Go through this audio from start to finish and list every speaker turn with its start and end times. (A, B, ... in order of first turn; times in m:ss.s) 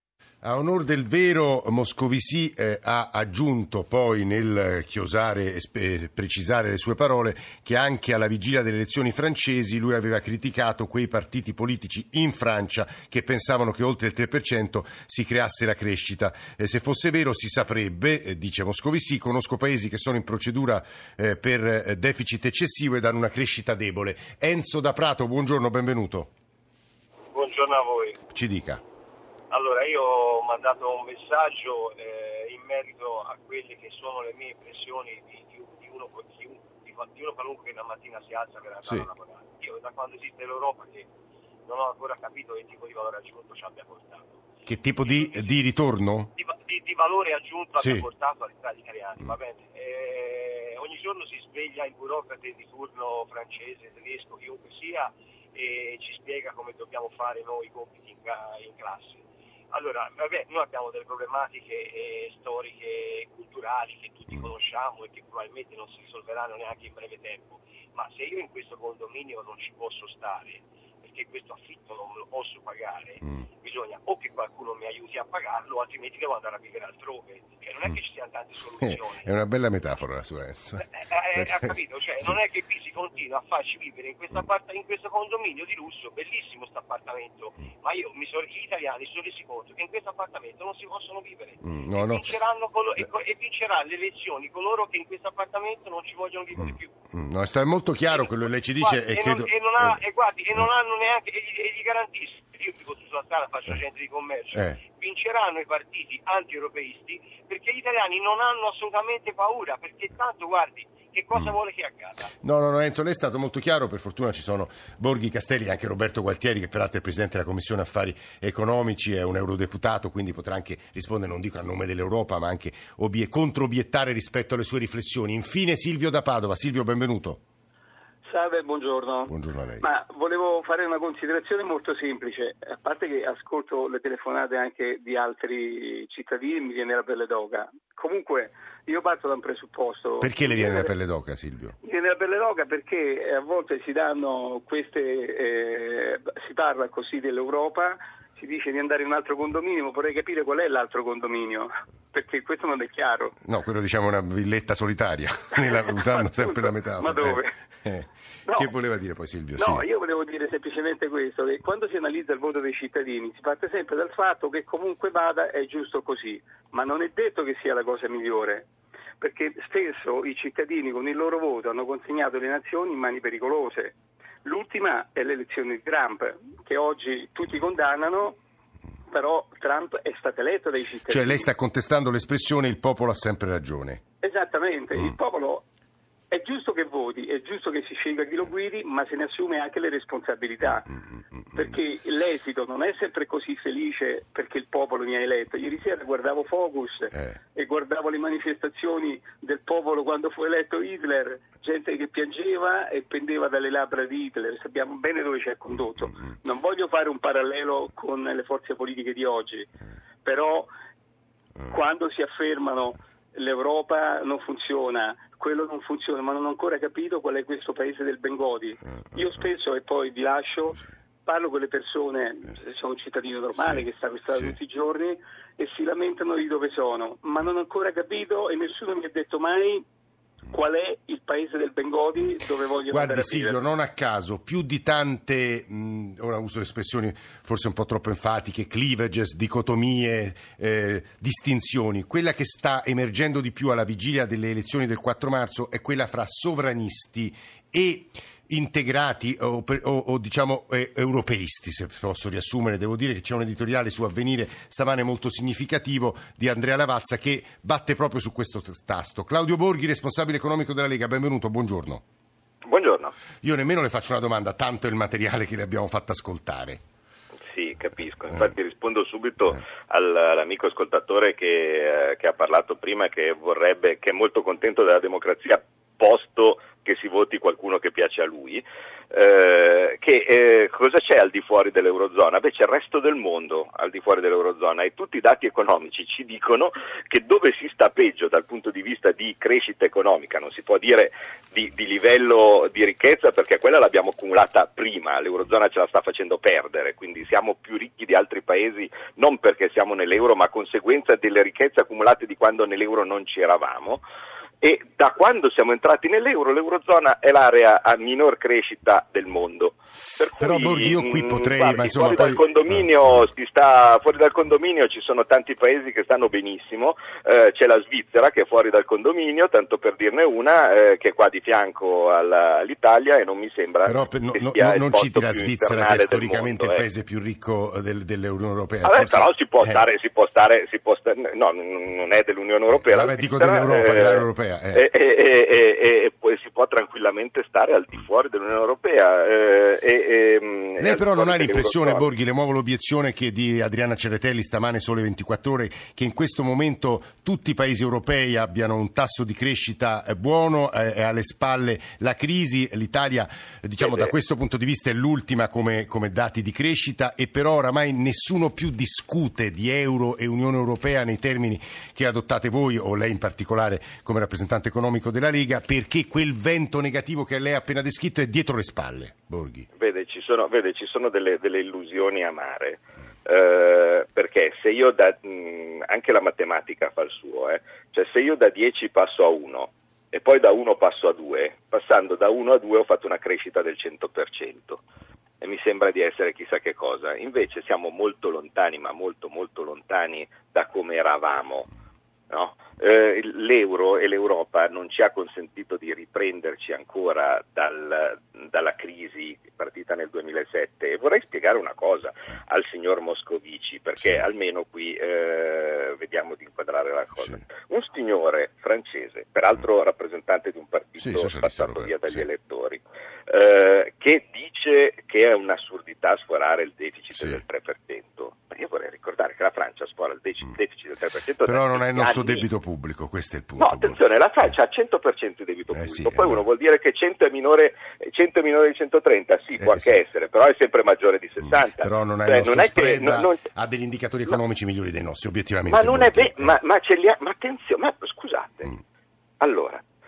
0:00.4-0:26.3 A
0:27.3-0:28.2 B
0:28.3-0:28.8 A
0:29.5-0:41.1 B
0:41.7-0:44.5 B
0:44.7-0:46.3 A
0:45.0-0:45.5 B
0:46.4-1:19.3 B
1:19.1-1:21.6 A
1:20.8-1:37.0 B
1:31.6-1:32.2 A
1:37.1-1:39.9 A
1:38.1-1:52.3 B
1:44.5-1:44.8 A
1:52.4-2:07.4 A
2:08.2-2:20.9 C
2:09.3-2:09.8 A
2:20.2-2:21.8 A
2:21.8-2:33.4 C
2:33.4-2:39.8 A
2:35.6-2:37.6 C
2:38.5-2:38.7 C
2:39.6-2:48.7 C
2:49.2-2:58.4 C
2:59.1-3:01.5 C
3:01.1-3:04.0 A
3:04.2-3:05.7 C
3:06.3-3:10.9 C
3:11.5-3:29.7 C
3:30.2-3:30.7 C
3:31.7-3:49.8 C
3:50.5-3:53.6 C
3:52.9-4:22.0 A
4:22.6-4:23.1 D
4:23.4-4:26.8 A
4:27.5-5:04.0 D
5:04.6-5:26.8 D
5:10.4-5:12.9 A
5:23.8-5:29.8 A
5:28.8-5:42.1 D
5:32.7-5:34.9 A
5:40.8-6:09.7 A
5:53.8-5:54.1 D
6:09.8-6:24.8 D
6:25.4-6:31.7 D
6:32.3-7:02.5 D
6:51.0-6:52.2 A
7:01.4-7:04.0 A
7:03.6-7:13.4 D
7:05.7-7:06.4 A
7:09.6-7:09.9 A
7:11.8-7:16.6 A
7:15.7-7:18.7 D
7:19.4-7:19.8 D